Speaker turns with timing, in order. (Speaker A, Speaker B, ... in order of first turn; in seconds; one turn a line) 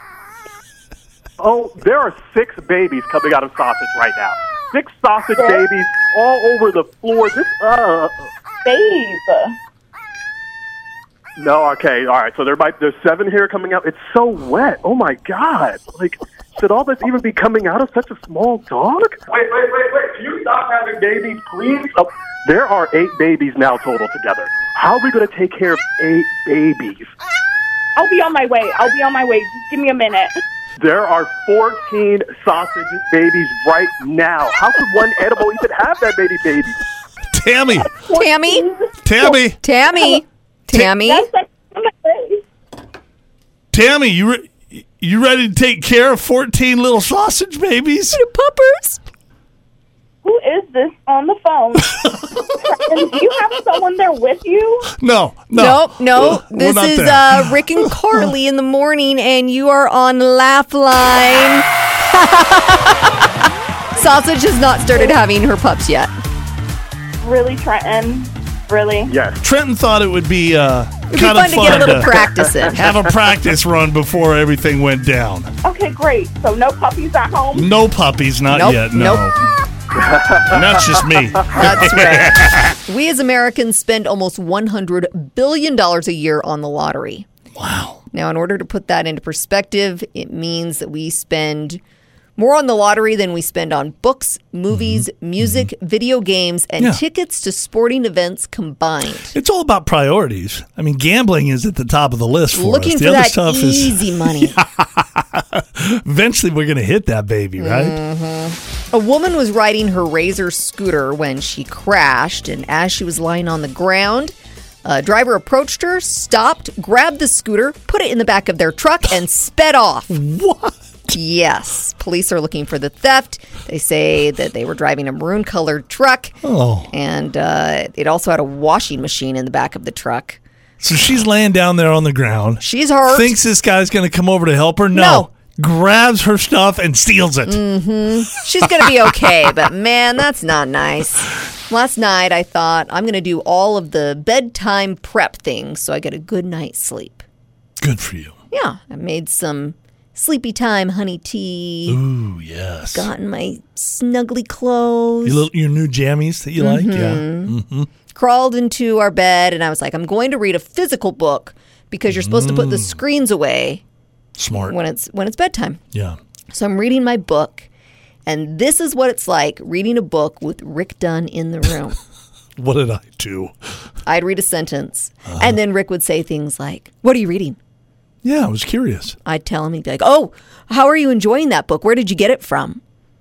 Speaker A: 1.4-8.3
Speaker B: 5.3-5.6
Speaker B: 8.7-9.6
Speaker A: 11.4-27.1
Speaker B: 28.0-30.4
Speaker A: 30.8-36.8
Speaker C: 37.3-37.9
Speaker B: 37.9-39.4
Speaker D: 38.1-38.7
Speaker C: 39.0-39.6
Speaker D: 39.6-41.3
Speaker B: 39.9-40.2
Speaker B: 40.8-42.4
Speaker C: 43.7-48.2
Speaker D: 48.1-49.0
Speaker B: 50.2-54.9
Speaker C: 54.9-58.3
Speaker D: 55.6-63.3
Speaker D: 64.0-66.1
Speaker B: 67.2-69.1
Speaker A: 69.1-69.4
Speaker C: 69.4-75.5
Speaker D: 71.1-72.9
Speaker B: 75.6-77.7
Speaker C: 77.5-79.4
Speaker D: 78.5-79.3
Speaker A: 80.0-81.0
Speaker C: 80.5-82.8
Speaker D: 81.6-87.3
Speaker C: 87.5-88.0
Speaker D: 88.1-91.8
Speaker D: 92.4-99.3
Speaker C: 94.7-95.7
Speaker C: 99.3-108.0
Speaker D: 102.5-104.6
Speaker D: 107.6-120.1
Speaker C: 120.1-121.2
Speaker D: 121.1-126.4
Speaker C: 126.4-126.9
Speaker D: 126.9-130.4
Speaker C: 130.8-137.7
Speaker D: 132.6-133.4
Speaker D: 134.9-135.3
Speaker D: 137.5-147.2
Speaker C: 138.6-139.5
Speaker C: 147.8-148.3
Speaker D: 148.5-152.0
Speaker C: 151.9-153.1
Speaker D: 152.9-155.4
Speaker C: 155.2-157.9
Speaker D: 156.6-157.6
Speaker D: 158.1-163.8
Speaker C: 162.1-163.0
Speaker C: 164.4-164.8
Speaker D: 164.6-165.8
Speaker C: 165.9-166.2
Speaker D: 166.5-167.7
Speaker D: 168.3-172.0
Speaker C: 172.6-173.5
Speaker D: 174.1-177.6
Speaker C: 175.3-175.6
Speaker C: 178.2-179.2
Speaker D: 179.2-182.8